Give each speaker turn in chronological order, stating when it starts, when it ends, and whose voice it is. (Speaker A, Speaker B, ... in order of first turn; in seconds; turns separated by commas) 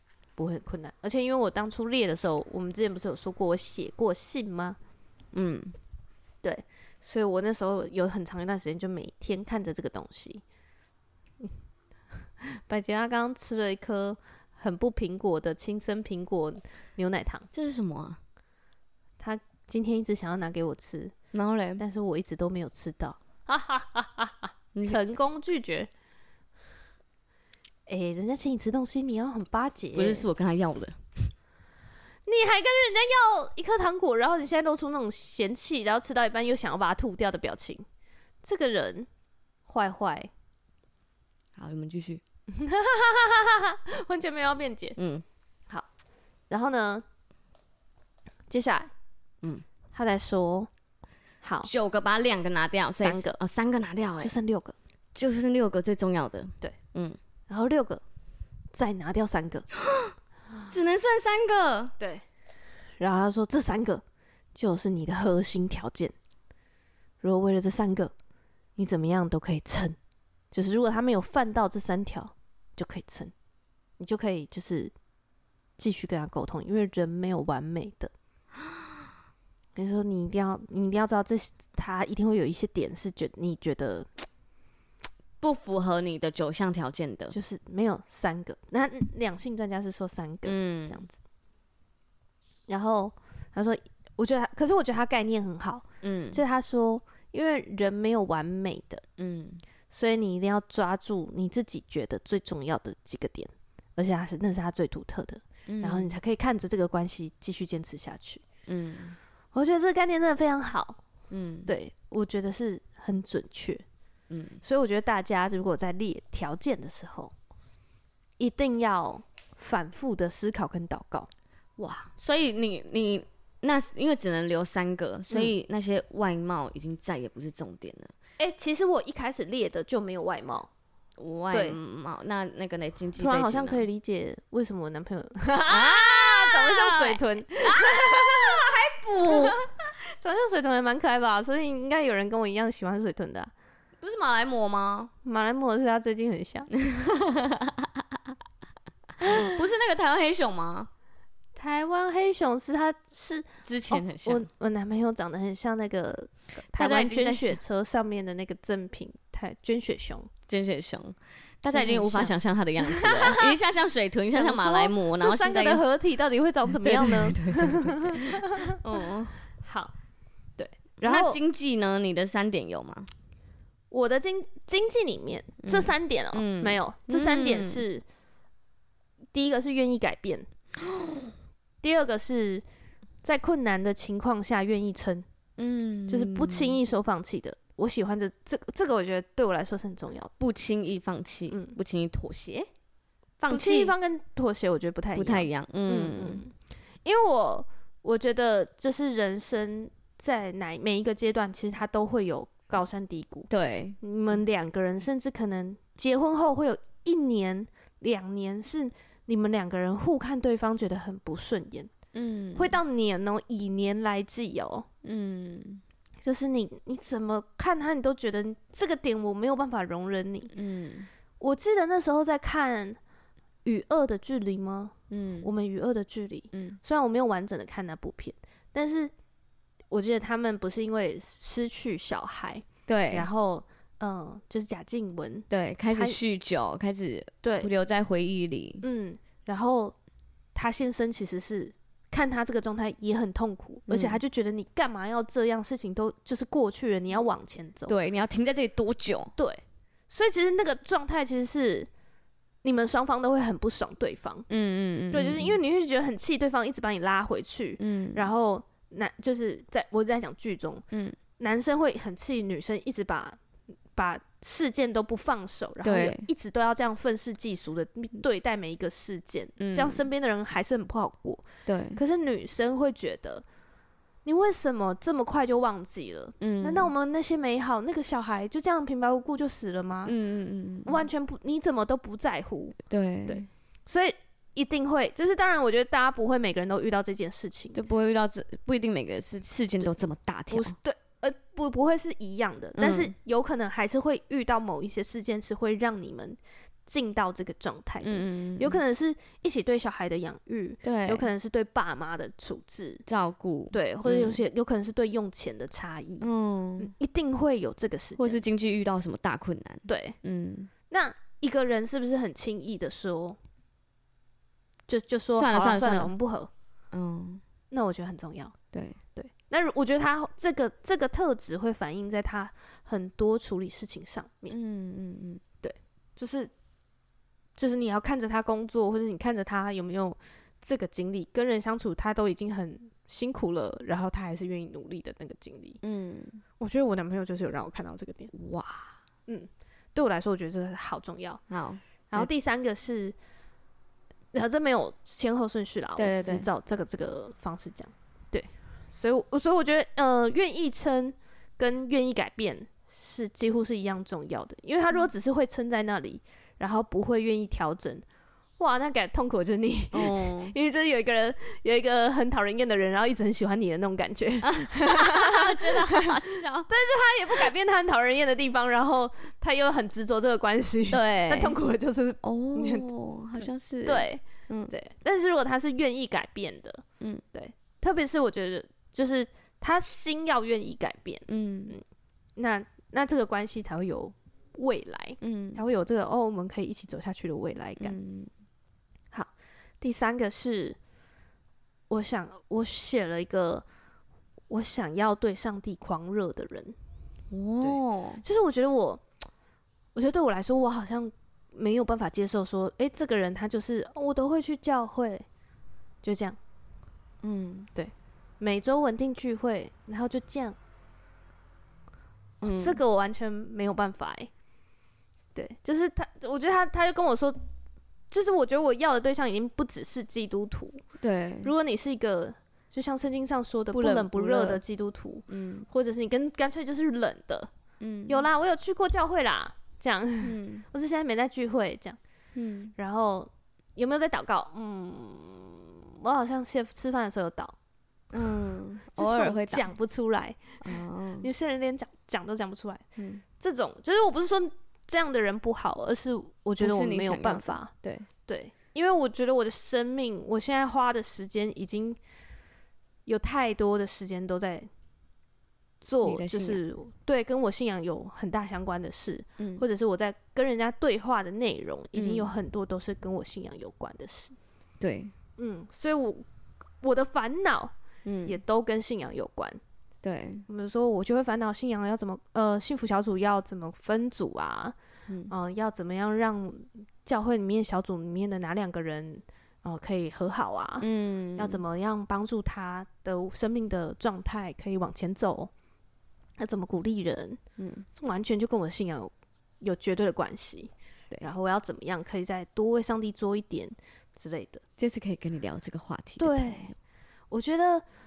Speaker A: 0.3-4.8, Speaker B: 5.3-5.8, Speaker A: 6.4-10.4, Speaker A: 12.4-17.5, Speaker B: 17.5-18.2, Speaker A: 19.2-21.1, Speaker B: 21.3-21.8, Speaker A: 21.8-25.9, Speaker A: 27.9-30.2, Speaker B: 29.9-31.3, Speaker A: 32.2-37.8, Speaker A: 38.4-39.1, Speaker A: 39.6-40.3, Speaker B: 41.6-42.2, Speaker A: 42.5-45.0, Speaker B: 45.0-45.2, Speaker A: 46.5-47.0, Speaker A: 48.5-48.9, Speaker A: 49.9-50.7, Speaker A: 51.4-51.7, Speaker B: 51.6-54.3, Speaker A: 53.0-53.3, Speaker A: 54.2-54.7, Speaker B: 55.1-57.2, Speaker A: 57.5-58.0, Speaker A: 58.7-59.6, Speaker B: 60.7-61.9, Speaker A: 62.0-62.2, Speaker A: 63.0-64.0, Speaker A: 64.5-66.1, Speaker A: 67.2-68.1, Speaker A: 68.8-70.0, Speaker A: 70.5-73.3, Speaker A: 74.0-74.9, Speaker A: 75.8-78.1, Speaker A: 79.8-84.2, Speaker B: 85.4-87.3, Speaker A: 87.3-91.1, Speaker B: 90.4-91.0, Speaker A: 92.7-99.0, Speaker B: 96.0-96.4, Speaker B: 99.2-99.6, Speaker A: 99.9-108.4, Speaker B: 105.7-106.1, Speaker B: 108.7-109.2, Speaker A: 109.5-111.0, Speaker B: 111.3-111.7, Speaker A: 111.7-113.8, Speaker B: 114.3-114.6, Speaker A: 114.6-117.3, Speaker A: 118.4-121.3, Speaker B: 121.8-128.1, Speaker A: 128.4-130.7, Speaker B: 131.2-133.8, Speaker A: 131.5-131.8, Speaker A: 133.2-138.7, Speaker B: 135.7-139.6, Speaker A: 139.2-143.5, Speaker B: 144.0-145.1, Speaker A: 145.2-146.7, Speaker B: 146.8-148.0, Speaker B: 149.2-150.9, Speaker A: 151.5-160.3, Speaker B: 153.7-154.5, Speaker B: 156.7-157.6, Speaker B: 160.5-165.8, Speaker A: 161.7-163.6, Speaker A: 164.3-168.8, Speaker B: 166.8-169.4, Speaker A: 169.6-169.9, Speaker A: 170.6-171.4, Speaker B: 171.0-173.1, Speaker A: 173.9-178.0, Speaker B: 175.6-177.8, Speaker A: 179.3-180.4, Speaker B: 180.9-181.3, Speaker A: 181.8-182.6, Speaker A: 183.2-185.2, Speaker B: 185.6-186.8, Speaker A: 186.1-190.3, Speaker B: 190.4-192.7, Speaker A: 191.5-191.8, Speaker B: 193.4-193.9, Speaker A: 193.5-203.5, Speaker B: 195.1-196.4, Speaker B: 203.5-204.0, Speaker A: 204.0-211.9, Speaker B: 212.1-212.8, Speaker A: 212.5-214.9, Speaker B: 215.0-215.8, Speaker A: 216.2-220.5, Speaker B: 220.5-221.1, Speaker A: 221.4-223.0, Speaker A: 223.6-229.1, Speaker B: 225.1-225.5, Speaker B: 226.5-226.8, Speaker A: 229.9-236.2, Speaker B: 232.9-233.3, Speaker B: 235.5-238.8, Speaker A: 237.4-237.7, Speaker A: 238.8-239.9, Speaker A: 240.5-247.9, Speaker B: 243.9-244.2, Speaker B: 247.9-249.3, Speaker A: 249.4-251.9, Speaker A: 252.6-254.4, Speaker B: 254.5-255.6, Speaker A: 255.1-260.8, Speaker B: 257.8-258.3, Speaker B: 260.9-261.2, Speaker A: 261.4-263.4, Speaker A: 263.9-273.4, Speaker B: 265.8-266.3, Speaker B: 269.6-270.0, Speaker B: 271.6-272.0, Speaker A: 274.2-280.1, Speaker B: 276.4-276.9, Speaker B: 280.1-281.0, Speaker A: 280.8-287.8, Speaker B: 282.9-283.5, Speaker B: 287.7-290.7, Speaker A: 290.5-303.0, Speaker B: 292.8-293.1, Speaker B: 298.0-298.8, Speaker B: 300.8-301.3, Speaker B: 303.1-304.4, Speaker A: 303.7-306.2, Speaker B: 306.2-306.9, Speaker A: 306.8-308.4, Speaker B: 308.2-310.7, Speaker A: 309.9-310.2, Speaker A: 310.9-313.4, Speaker A: 314.9-316.5, Speaker B: 315.3-316.1, Speaker B: 316.9-317.4, Speaker A: 317.7-318.6, Speaker B: 318.7-319.0, Speaker A: 319.1-324.6, Speaker B: 324.5-325.4, Speaker A: 325.6-326.5, Speaker A: 327.6-335.8, Speaker B: 335.8-336.4, Speaker A: 336.6-338.3, Speaker B: 338.3-338.9, Speaker A: 339.3-341.4, Speaker B: 341.5-342.3, Speaker A: 342.1-343.1, Speaker A: 344.3-358.0, Speaker B: 345.9-346.5, Speaker A: 358.6-366.1, Speaker B: 359.9-360.5, Speaker B: 364.4-366.7, Speaker A: 366.7-376.8, Speaker B: 370.9-371.6, Speaker B: 372.2-374.7, Speaker A: 377.3-381.8, Speaker B: 381.3-381.8, Speaker A: 382.4-387.9, Speaker B: 385.2-385.6, Speaker B: 387.8-388.3, Speaker A: 389.1-390.8, Speaker A: 391.9-393.6, Speaker A: 394.5-396.8, Speaker B: 397.3-398.2, Speaker A: 397.6-399.0, Speaker A: 399.9-405.2, Speaker A: 406.0-406.4, Speaker B: 407.2-407.7, Speaker A: 407.7-410.6, Speaker B: 412.4-412.8, Speaker A: 412.4-414.3, Speaker A: 415.3-417.4, Speaker A: 418.1-420.8, Speaker B: 421.0-421.5, Speaker A: 421.4-427.5, Speaker B: 423.7-424.6, Speaker B: 425.3-425.6, Speaker B: 427.8-428.2, Speaker A: 428.1-432.0, Speaker B: 430.2-430.6, Speaker B: 432.3-432.7, Speaker A: 432.8-437.5, Speaker B: 438.1-439.7, Speaker A: 438.9-442.8, Speaker B: 440.6-441.3, Speaker B: 443.0-443.2, Speaker A: 443.4-447.7, Speaker B: 446.6-448.1, Speaker A: 448.3-452.0, Speaker A: 453.1-454.7, Speaker A: 455.8-464.4, Speaker B: 456.0-456.6, Speaker B: 461.9-462.3, Speaker B: 464.8-465.1, Speaker A: 465.4-466.2, Speaker A: 466.8-467.7, Speaker B: 468.0-468.4, Speaker A: 468.2-469.6, Speaker B: 470.0-470.4, Speaker A: 470.5-474.8, Speaker B: 475.1-475.3, Speaker A: 475.3-485.5, Speaker B: 480.8-481.6, Speaker A: 486.4-487.4, Speaker B: 487.6-487.9, Speaker A: 487.9-494.6, Speaker B: 494.8-496.7, Speaker A: 496.2-496.7, Speaker A: 497.3-497.8